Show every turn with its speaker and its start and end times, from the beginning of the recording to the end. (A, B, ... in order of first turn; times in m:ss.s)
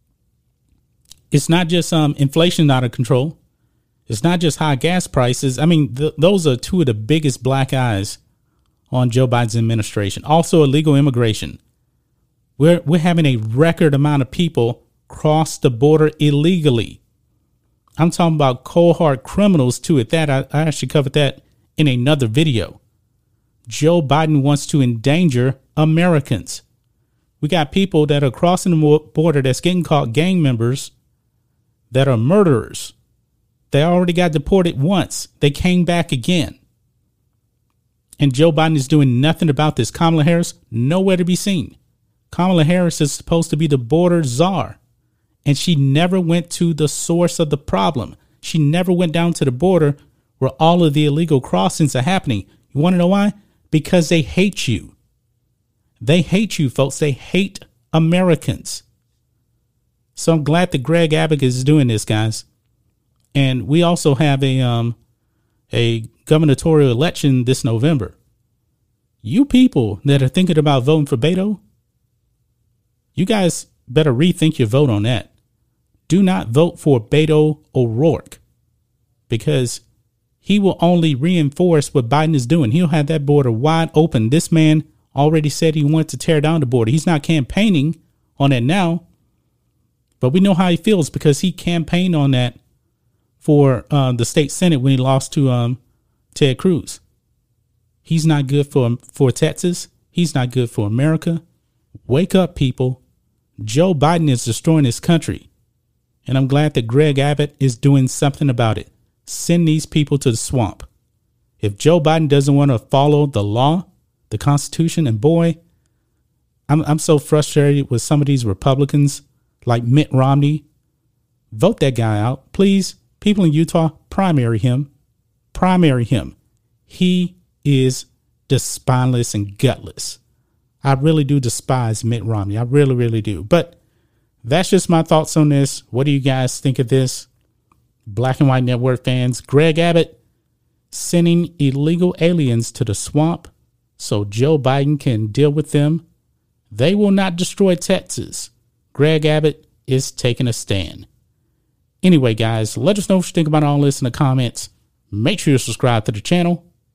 0:01.3-0:03.4 A
0:04.1-0:08.2 A
0:08.9-0:11.6 A
0:12.6-0:17.0 A
0:18.0-0:22.8 A
0:23.7-0:26.6 A
0:27.4-0:30.9 A
0:31.9-0:32.9 A
0:33.7-0:36.6 A
0:38.2-0:41.8 A
0:42.3-0:44.8 A
0:45.4-0:55.0 A
0:56.0-0:58.8 A
1:00.1-1:02.4 A
1:03.3-1:05.0 A
1:05.7-1:08.2 A
1:09.2-1:11.6 A
1:13.1-1:15.3 A
1:16.1-1:18.4 A
1:19.3-1:19.8 A
1:20.4-1:29.0 A
1:30.2-1:32.6 A
1:33.4-1:35.8 A
1:36.3-1:37.0 A
1:38.0-1:41.4 A
1:42.1-1:43.0 A
1:43.6-1:45.5 A
1:46.2-1:50.9 A
1:51.6-1:55.6 A
1:56.7-2:00.6 A
2:01.5-2:04.9 A
2:05.5-2:06.4 A
2:06.9-2:10.2 A
2:10.8-2:13.8 A
2:14.4-2:17.3 A
2:18.1-2:20.2 A
2:20.9-2:26.0 A
2:26.7-2:31.1 A
2:32.0-2:36.6 A